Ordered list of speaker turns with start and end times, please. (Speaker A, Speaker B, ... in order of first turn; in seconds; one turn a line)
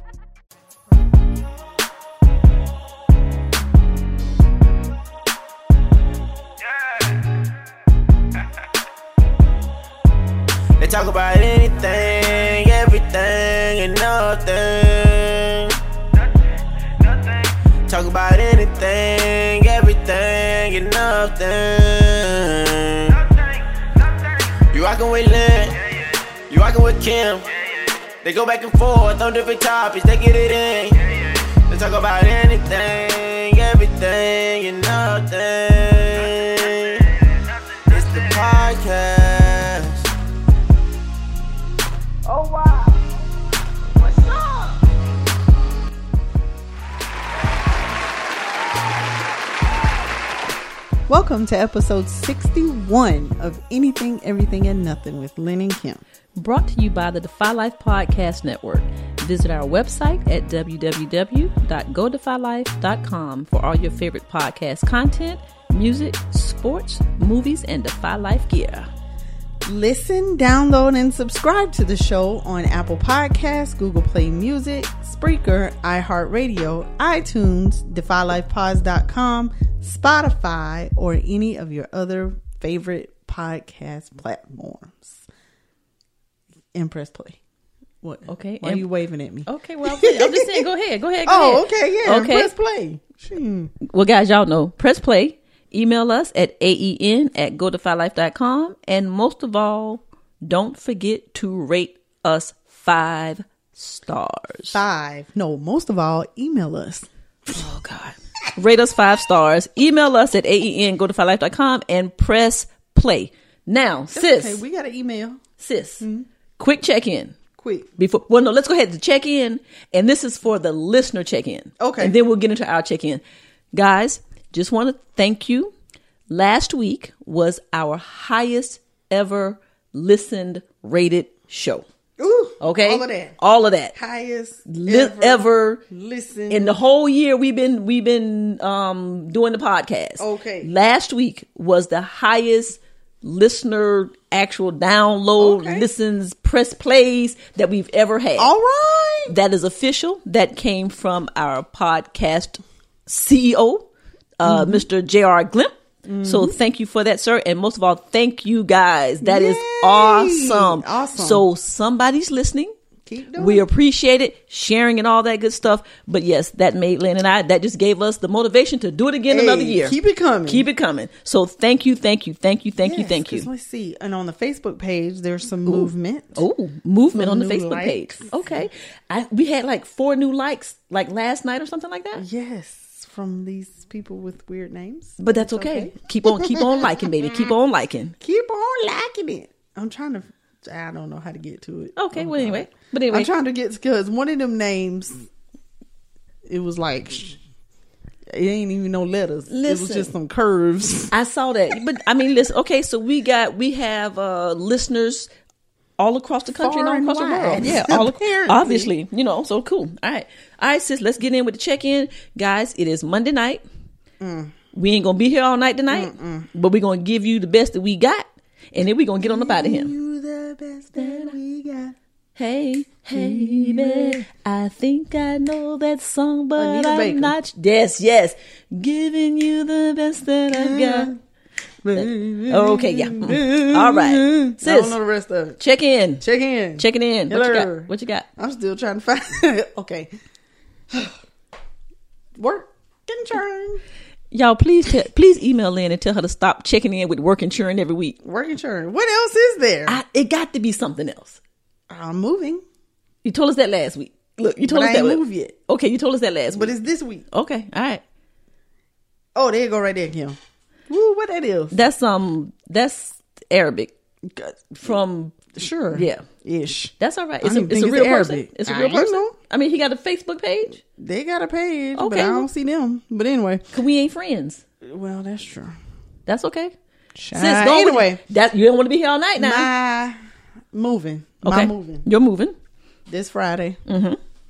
Speaker A: 10.8-15.8
Speaker A: 17.0-25.8
Speaker A: 26.5-27.5
Speaker A: 28.2-37.1
Speaker A: 37.9-40.1
Speaker A: 42.4-42.9
Speaker A: 44.0-44.7
Speaker B: 51.1-56.0
Speaker C: 56.4-68.9
Speaker B: 69.6-85.2
Speaker B: 86.7-87.4
Speaker B: 88.0-90.7
Speaker C: 88.3-88.9
Speaker C: 89.5-92.5
Speaker B: 91.2-93.7
Speaker C: 93.8-104.8
Speaker B: 104.7-107.1
Speaker C: 107.5-114.6
Speaker B: 114.1-115.4
Speaker C: 115.6-116.0
Speaker B: 116.0-116.3
Speaker C: 116.6-117.3
Speaker B: 117.6-117.9
Speaker C: 118.0-123.2
Speaker B: 121.8-122.2
Speaker C: 123.7-125.7
Speaker C: 126.3-131.8
Speaker B: 132.2-133.3
Speaker C: 132.6-133.9
Speaker B: 133.9-136.8
Speaker C: 134.7-135.8
Speaker C: 136.5-148.5
Speaker B: 140.2-140.7
Speaker B: 145.4-145.9
Speaker B: 148.4-149.3
Speaker C: 149.3-153.9
Speaker C: 154.4-162.7
Speaker B: 154.4-154.8
Speaker B: 156.0-156.5
Speaker B: 159.2-161.4
Speaker B: 163.1-163.7
Speaker C: 163.3-169.9
Speaker B: 169.3-170.7
Speaker C: 170.5-173.5
Speaker B: 172.8-176.4
Speaker C: 175.7-182.2
Speaker B: 177.1-178.6
Speaker B: 182.2-186.9
Speaker C: 185.2-188.2
Speaker B: 188.2-195.2
Speaker C: 191.9-193.3
Speaker B: 196.4-197.4
Speaker B: 198.3-201.1
Speaker C: 199.5-200.1
Speaker C: 201.1-205.3
Speaker C: 206.0-213.6
Speaker B: 206.6-208.9
Speaker B: 214.2-214.5
Speaker C: 214.7-219.9
Speaker B: 215.9-216.5
Speaker B: 219.2-221.9
Speaker C: 220.9-221.3
Speaker C: 222.3-231.1
Speaker B: 223.1-224.2
Speaker B: 226.6-227.3
Speaker B: 230.5-231.2
Speaker B: 231.8-235.6
Speaker C: 231.9-235.0
Speaker C: 235.6-236.2
Speaker B: 236.2-240.1
Speaker C: 236.8-238.3
Speaker B: 242.3-243.8
Speaker C: 244.3-248.2
Speaker B: 248.2-250.0
Speaker C: 249.8-251.4
Speaker B: 251.9-252.6
Speaker C: 253.2-256.8
Speaker B: 254.6-255.6
Speaker B: 256.5-257.2
Speaker C: 257.3-258.0
Speaker B: 259.3-260.4
Speaker B: 260.9-261.8
Speaker C: 261.7-263.9
Speaker B: 264.2-264.9
Speaker C: 264.7-266.2
Speaker B: 265.5-269.4
Speaker C: 267.0-270.8
Speaker B: 270.8-273.7
Speaker C: 271.9-272.5
Speaker C: 273.7-274.6
Speaker B: 274.8-275.8
Speaker C: 276.3-276.7
Speaker B: 277.1-278.2
Speaker C: 277.3-279.7
Speaker B: 279.4-280.2
Speaker B: 280.7-282.1
Speaker C: 281.4-282.6
Speaker B: 283.1-283.8
Speaker C: 283.9-284.2